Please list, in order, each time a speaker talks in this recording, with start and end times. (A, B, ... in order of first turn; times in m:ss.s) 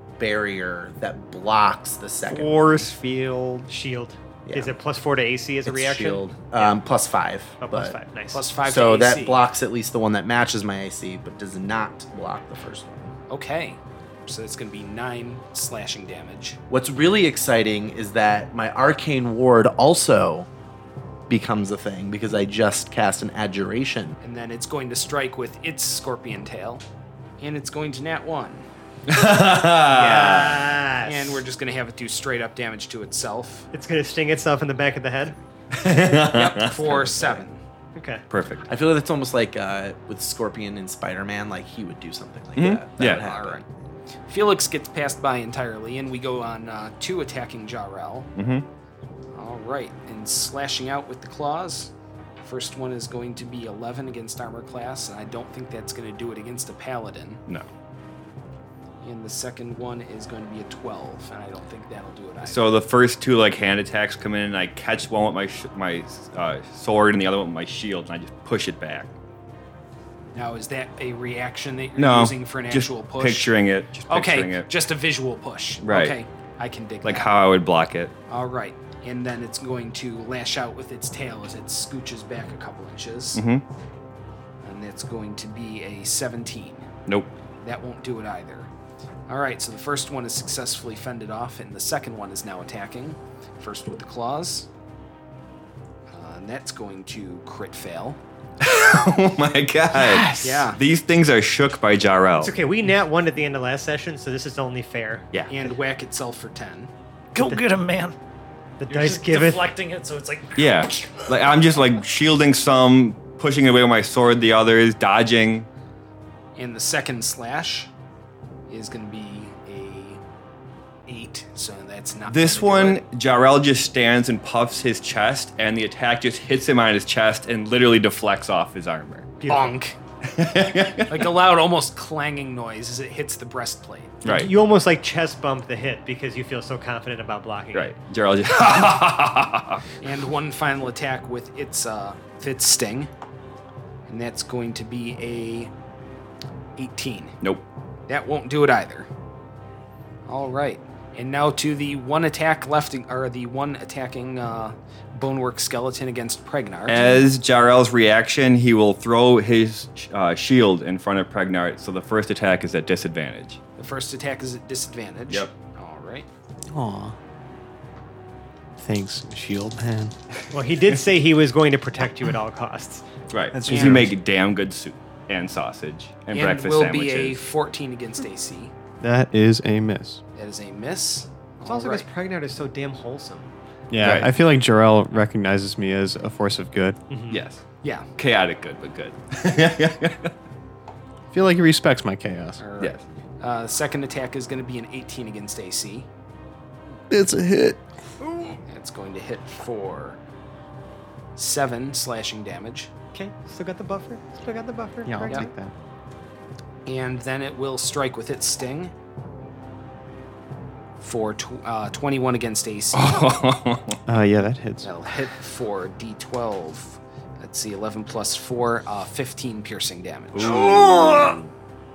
0:00.2-0:03.0 A
0:02.3-0:03.7 B
0:03.7-0:06.8 C
0:04.4-0:04.8 A
0:05.6-0:08.0 A
0:07.6-0:08.4 C
0:08.3-0:09.4 D
0:08.6-0:13.1 A
0:13.3-0:16.6 D
0:16.7-0:20.5 A
0:21.3-0:24.2 A
0:24.2-0:26.8 D
0:27.4-0:28.7 D
0:29.1-0:30.7 B
0:29.9-0:31.4 C
0:31.0-0:33.7 D
0:33.7-0:35.4 C
0:35.7-0:37.4 B
0:36.4-0:37.6 D
0:38.0-0:38.2 C
0:38.3-0:38.7 B
0:38.7-0:43.6 A
0:42.6-0:43.2 B
0:43.0-0:43.6 D
0:44.3-0:48.3 D
0:48.4-0:48.6 B
0:49.3-0:57.4 D
0:59.0-1:02.7 D
1:02.4-1:09.1 B
1:10.3-1:13.5 D
1:12.0-1:14.7 B
1:14.1-1:17.3 D
1:15.8-1:16.2 B
1:17.0-1:18.1 B
1:18.3-1:23.4 D
1:23.4-1:23.6 B
1:24.6-1:26.9 D
1:27.1-1:27.3 B
1:27.6-1:28.7 D
1:29.3-1:34.7 D
1:36.1-1:38.2 D
1:38.6-1:42.5 B
1:40.0-1:40.4 C
1:40.4-1:40.8 D
1:42.4-1:45.2 C
1:45.5-1:46.9 D
1:47.4-1:48.2 E
1:48.8-1:49.7 C
1:48.9-1:51.2 E
1:50.6-1:55.7 B
1:56.6-1:57.9 D
1:58.7-2:00.2 D
2:01.1-2:03.0 D
2:02.3-2:09.4 B
2:09.4-2:09.8 C
2:09.5-2:10.0 D
2:10.3-2:11.3 B
2:11.1-2:14.2 D
2:14.2-2:14.5 B
2:14.2-2:17.9 C
2:17.7-2:19.8 B
2:20.0-2:23.1 D
2:24.1-2:25.7 D
2:26.8-2:27.4 D
2:28.1-2:29.1 D
2:30.3-2:37.0 D
2:36.9-2:43.6 B
2:43.8-2:46.3 D
2:46.7-2:47.2 F
2:48.8-2:50.2 F
2:50.5-2:53.0 C
2:53.3-2:57.4 B
2:53.5-2:54.1 F
2:53.7-2:54.1 C
2:53.7-2:54.0 D
2:56.3-2:58.7 D
2:59.0-3:00.2 F
3:00.4-3:02.1 D
3:01.6-3:03.5 C
3:03.9-3:07.0 F
3:04.0-3:04.3 B
3:07.1-3:07.4 C
3:07.3-3:07.6 B
3:08.2-3:10.3 B
3:11.3-3:12.6 F
3:12.6-3:16.1 D
3:17.1-3:17.8 F
3:18.7-3:20.2 D
3:21.4-3:22.9 D
3:23.1-3:25.5 C
3:25.1-3:25.7 F
3:26.9-3:28.9 D
3:31.0-3:33.3 D
3:32.9-3:34.0 B
3:34.1-3:34.9 F
3:34.8-3:40.8 D
3:40.3-3:41.5 B